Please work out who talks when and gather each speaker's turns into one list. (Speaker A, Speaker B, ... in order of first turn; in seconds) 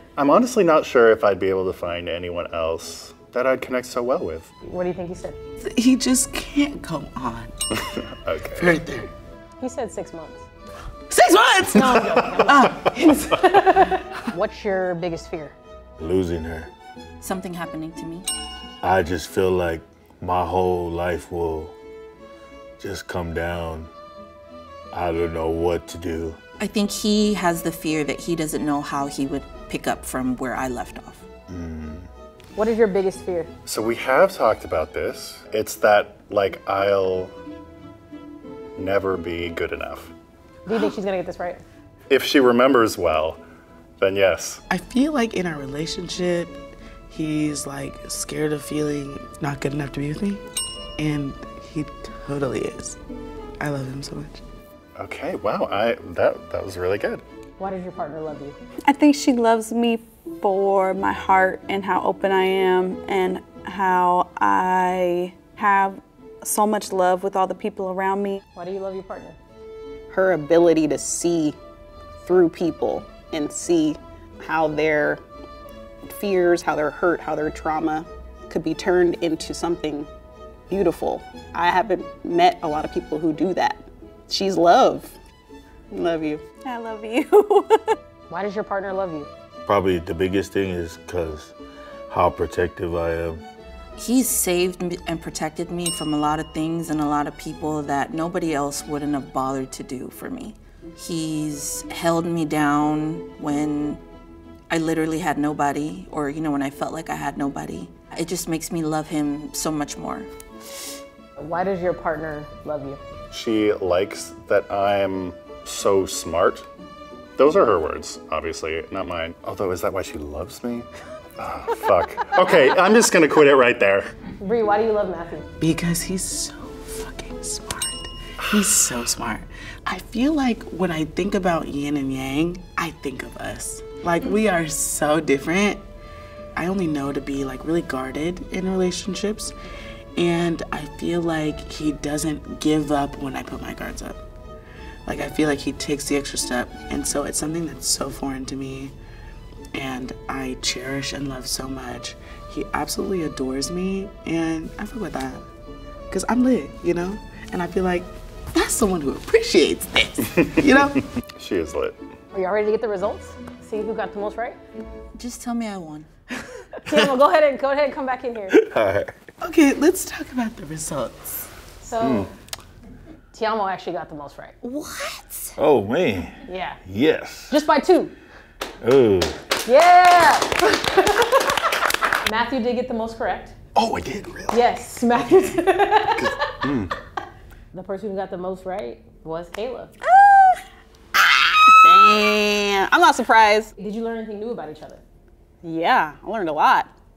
Speaker A: 0.2-4.5, 8.2-8.7, 33.7-37.3, 38.8-40.1, 42.1-43.4, 44.0-44.6, 55.0-57.2, 113.3-116.7, 117.4-120.9, 121.4-124.0, 160.4-162.0, 172.0-172.3, 186.2-186.9
Speaker B: 4.7-5.4, 9.6-10.4, 11.7-15.6, 32.6-33.5, 40.7-41.6, 57.6-58.6, 68.5-69.4, 88.3-89.3, 111.4-113.0, 124.4-125.5, 162.3-164.6, 166.8-168.6, 171.8-172.3, 173.3-174.6, 176.5-176.8, 177.5-178.1, 179.7-181.6, 182.2-183.6, 184.5-186.7, 187.7-189.9, 193.8-195.0
Speaker C: 5.6-7.8, 8.6-9.1, 11.1-12.9, 44.7-46.6, 47.1-50.4, 51.0-53.0, 53.6-54.4, 125.6-135.8, 136.6-139.5, 140.2-144.2, 145.1-148.9, 149.7-155.4, 156.1-161.0, 169.4-171.5, 183.8-184.6
Speaker D: 16.0-16.7, 18.8-21.8, 22.8-23.9, 24.9-26.4, 31.5-32.1, 89.7-91.5, 92.1-93.4, 168.5-169.2, 175.6-177.6, 178.8-179.4
Speaker E: 17.2-18.3, 26.6-31.2, 94.0-104.0, 104.7-110.3, 165.2-166.1, 174.6-175.6
Speaker F: 58.9-68.4, 86.6-88.0, 190.0-190.6
Speaker G: 70.1-71.6, 72.2-75.2, 76.1-80.1, 80.7-85.2, 85.9-86.5, 191.8-193.7, 195.6-196.9